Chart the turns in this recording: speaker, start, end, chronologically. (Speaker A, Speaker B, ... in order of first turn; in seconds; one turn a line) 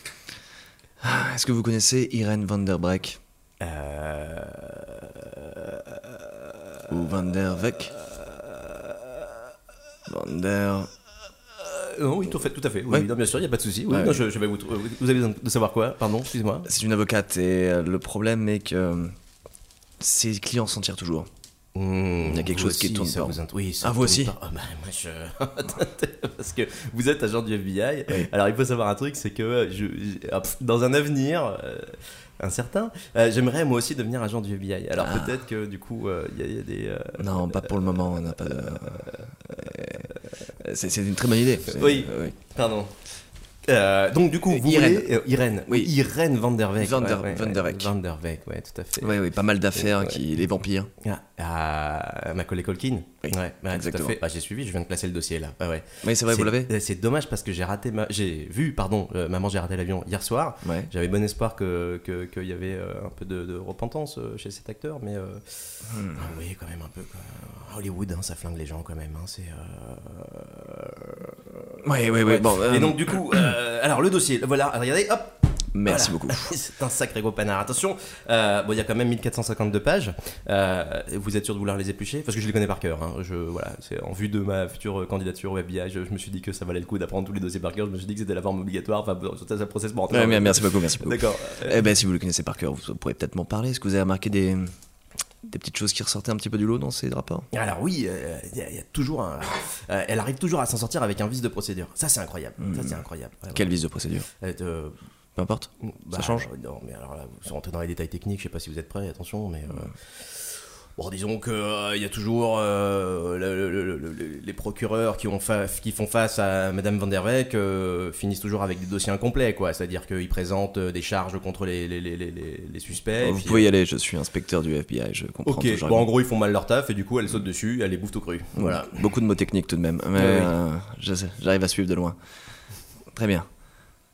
Speaker A: 1.0-3.2
Speaker B: 3.6-6.9
Speaker A: 6.9-7.9
Speaker B: 7.7-9.0
Speaker A: 10.1-10.9
Speaker B: 11.6-16.7
Speaker A: 13.9-14.2
Speaker A: 16.6-19.1
Speaker A: 20.0-21.3
Speaker B: 21.7-40.0
Speaker A: 22.2-24.3
Speaker A: 35.0-35.4
Speaker A: 37.2-40.0
Speaker A: 40.6-42.3
Speaker B: 41.7-42.9
Speaker B: 43.6-49.2
Speaker A: 44.5-45.1
Speaker A: 45.7-45.9
Speaker A: 46.8-47.9
Speaker A: 49.0-50.9
Speaker B: 49.7-50.2
Speaker B: 51.0-65.4
Speaker A: 53.2-54.2
Speaker A: 56.0-56.7
Speaker A: 60.6-60.9
Speaker A: 65.9-66.2
Speaker B: 66.1-91.8
Speaker A: 71.8-73.5
Speaker A: 75.7-76.5
Speaker A: 90.1-94.7
Speaker A: 95.5-97.5
Speaker B: 97.5-103.7
Speaker A: 102.6-104.3
Speaker B: 104.4-105.0
Speaker A: 105.3-106.5
Speaker B: 105.8-110.3
Speaker B: 111.0-123.7
Speaker A: 123.2-126.1
Speaker B: 125.4-129.0
Speaker A: 128.6-132.2
Speaker B: 130.2-130.5
Speaker A: 133.1-133.5